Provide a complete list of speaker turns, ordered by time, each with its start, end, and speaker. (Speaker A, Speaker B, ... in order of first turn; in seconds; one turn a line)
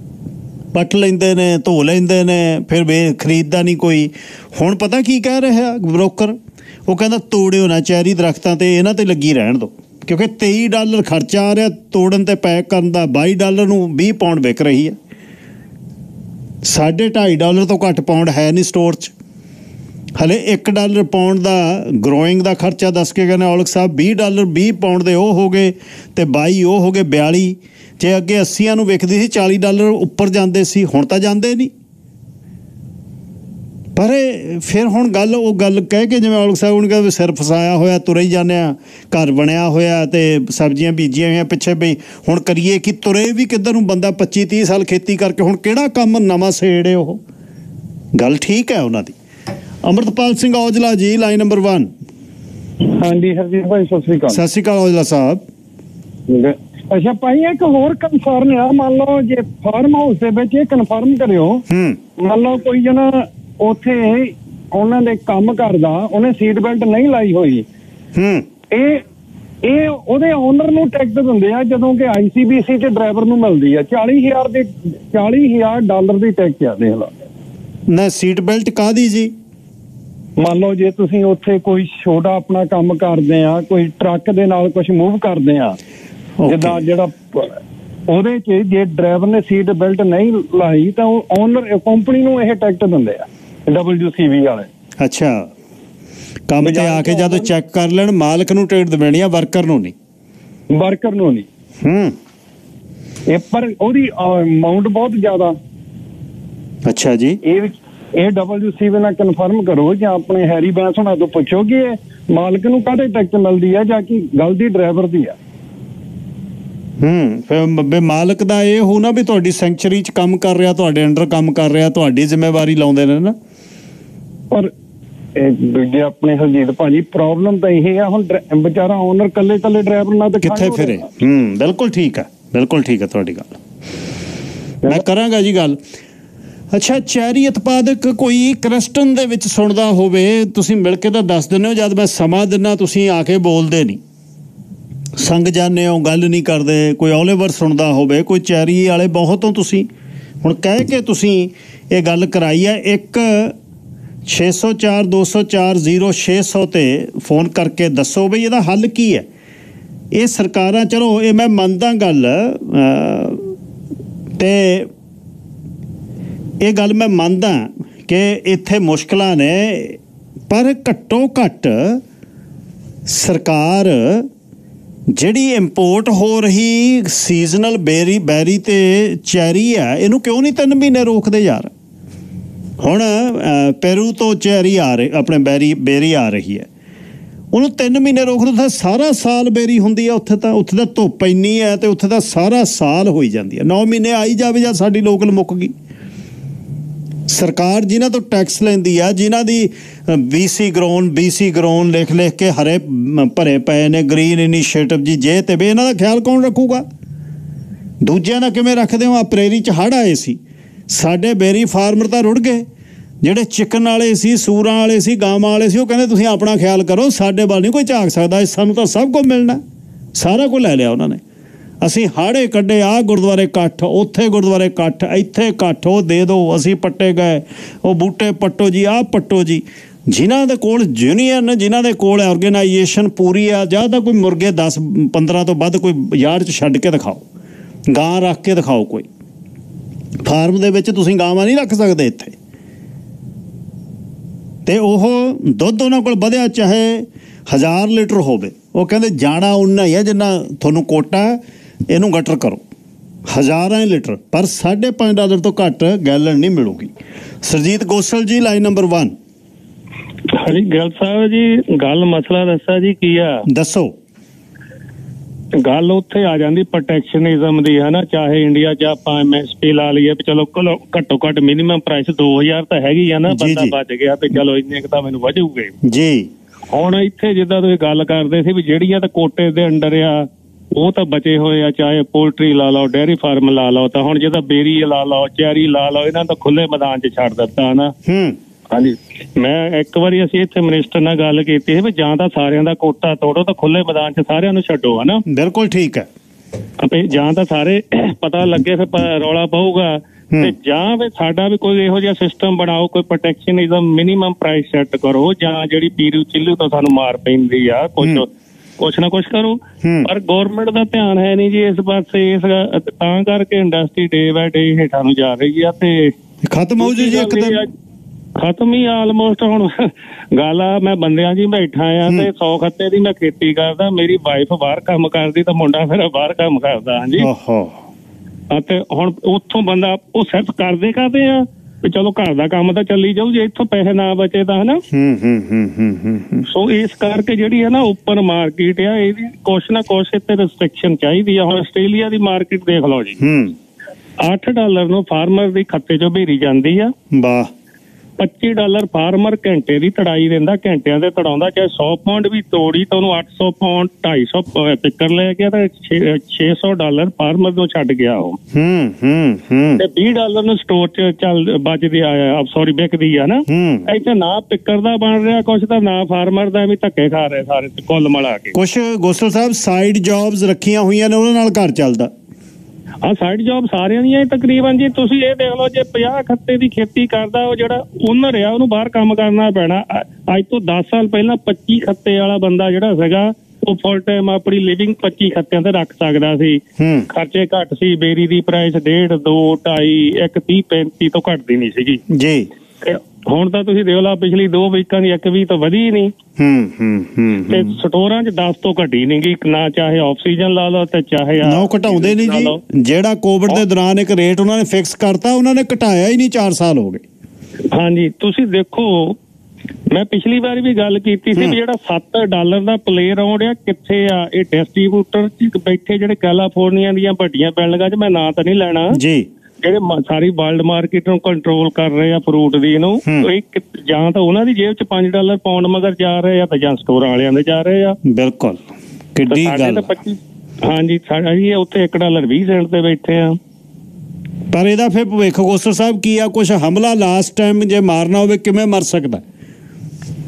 Speaker A: 0.7-6.4
Speaker A: 6.9-15.0
Speaker A: 16.6-19.1
Speaker A: 20.2-31.7
Speaker A: 34.0-47.2
Speaker A: 48.1-49.1
Speaker A: 49.8-51.9
Speaker B: 53.0-54.4
Speaker A: 54.3-55.4
Speaker B: 56.3-61.6
Speaker A: 61.7-62.0
Speaker B: 62.2-67.7
Speaker A: 68.2-68.5
Speaker B: 68.7-69.0
Speaker B: 69.6-77.1
Speaker A: 77.9-79.3
Speaker B: 80.4-85.8
Speaker A: 86.4-86.8
Speaker B: 86.5-87.5
Speaker B: 88.1-94.7
Speaker A: 95.0-95.5
Speaker A: 96.5-99.9
Speaker B: 96.6-97.5
Speaker B: 100.7-101.5
Speaker A: 101.8-102.2
Speaker B: 103.3-105.6
Speaker A: 106.9-107.4
Speaker B: 107.4-115.3
Speaker A: 117.0-123.4
Speaker B: 125.4-131.0
Speaker A: 130.4-133.6
Speaker A: 134.9-135.8
Speaker A: 136.7-144.0
Speaker A: 145.2-149.9
Speaker A: 150.4-153.5
Speaker A: 154.3-159.3
Speaker A: 160.1-163.5
Speaker A: 164.4-164.9
Speaker A: 166.6-170.0
Speaker A: 170.5-172.0
Speaker A: 173.1-174.3
Speaker A: 175.1-181.7
Speaker A: 182.8-186.7
Speaker A: 187.5-195.7
Speaker A: 197.3-206.9
Speaker A: 208.0-210.4
Speaker A: 210.9-212.7
Speaker A: 213.2-219.6
Speaker A: 220.2-221.2
Speaker A: 221.8-237.2
Speaker A: 237.9-239.1
Speaker A: 240.2-242.3
Speaker A: 244.7-252.6
Speaker A: 253.3-256.9
Speaker A: 257.4-259.1
Speaker C: 260.3-263.4
Speaker A: 263.5-263.9
Speaker C: 265.6-275.7
Speaker A: 273.3-273.8
Speaker A: 275.8-276.3
Speaker C: 276.7-287.9
Speaker A: 288.1-288.4
Speaker C: 288.7-295.2
Speaker A: 295.3-296.1
Speaker C: 296.8-308.3
Speaker C: 308.8-316.1
Speaker A: 309.8-310.1
Speaker A: 316.4-317.6
Speaker C: 316.8-317.7
Speaker C: 318.4-327.3
Speaker A: 327.2-327.8
Speaker C: 328.5-334.8
Speaker A: 334.9-336.5
Speaker C: 336.5-343.2
Speaker A: 343.2-343.6
Speaker C: 344.2-346.9
Speaker A: 347.1-347.5
Speaker C: 348.2-358.4
Speaker A: 358.5-359.8
Speaker C: 359.8-368.6
Speaker A: 363.5-363.9
Speaker A: 368.5-372.1
Speaker C: 373.0-392.0
Speaker A: 386.8-387.1
Speaker A: 392.1-392.5
Speaker C: 392.8-396.1
Speaker A: 396.4-397.8
Speaker C: 397.5-402.6
Speaker A: 401.4-407.0
Speaker C: 407.7-409.2
Speaker C: 409.9-419.0
Speaker A: 418.9-419.3
Speaker C: 419.6-428.0
Speaker A: 423.1-423.3
Speaker A: 428.1-428.6
Speaker A: 429.1-429.9
Speaker C: 429.3-433.4
Speaker A: 434.5-439.2